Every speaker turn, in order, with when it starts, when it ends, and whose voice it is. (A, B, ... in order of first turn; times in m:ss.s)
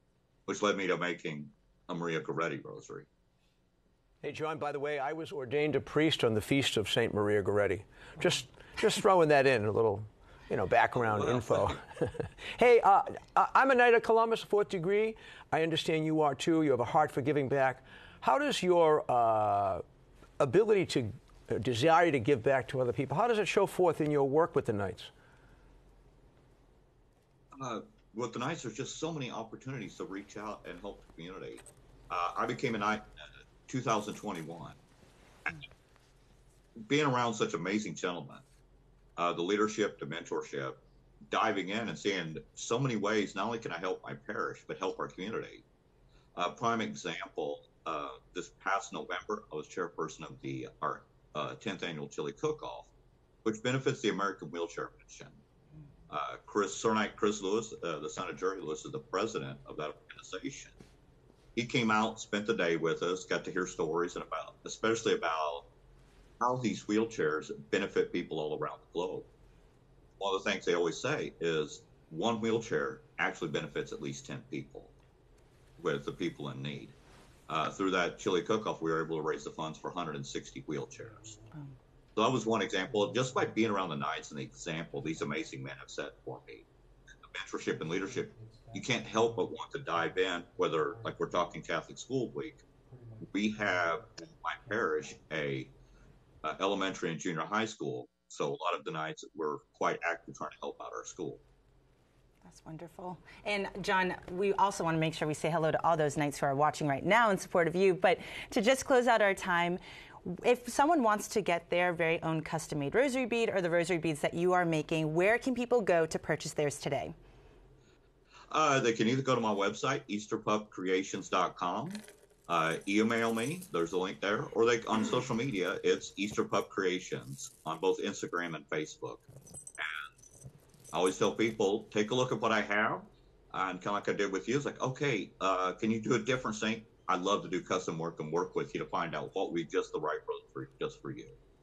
0:00.5-0:03.1 A
0:04.2-0:19.8 B
0:11.2-0:11.7 A
0:20.4-0:25.1 B
0:27.6-0:33.1 A
0:33.7-0:34.8 A
0:36.9-0:38.4 A
0:39.2-0:40.8 A
0:41.3-0:45.6 A
0:46.4-0:52.9 A
0:53.4-0:55.4 A
0:56.1-1:00.8 A
1:01.6-1:05.7 A
1:06.4-1:09.3 A
1:10.2-1:14.9 A
1:15.8-1:17.0 A
1:17.5-1:21.4 A
1:22.2-1:26.7 A
1:27.3-1:32.6 A
1:33.2-1:35.7 A
1:36.4-1:41.4 A
1:42.4-1:57.1 C
1:58.5-2:09.2 A
2:09.8-2:10.1 A
2:10.9-2:21.4 A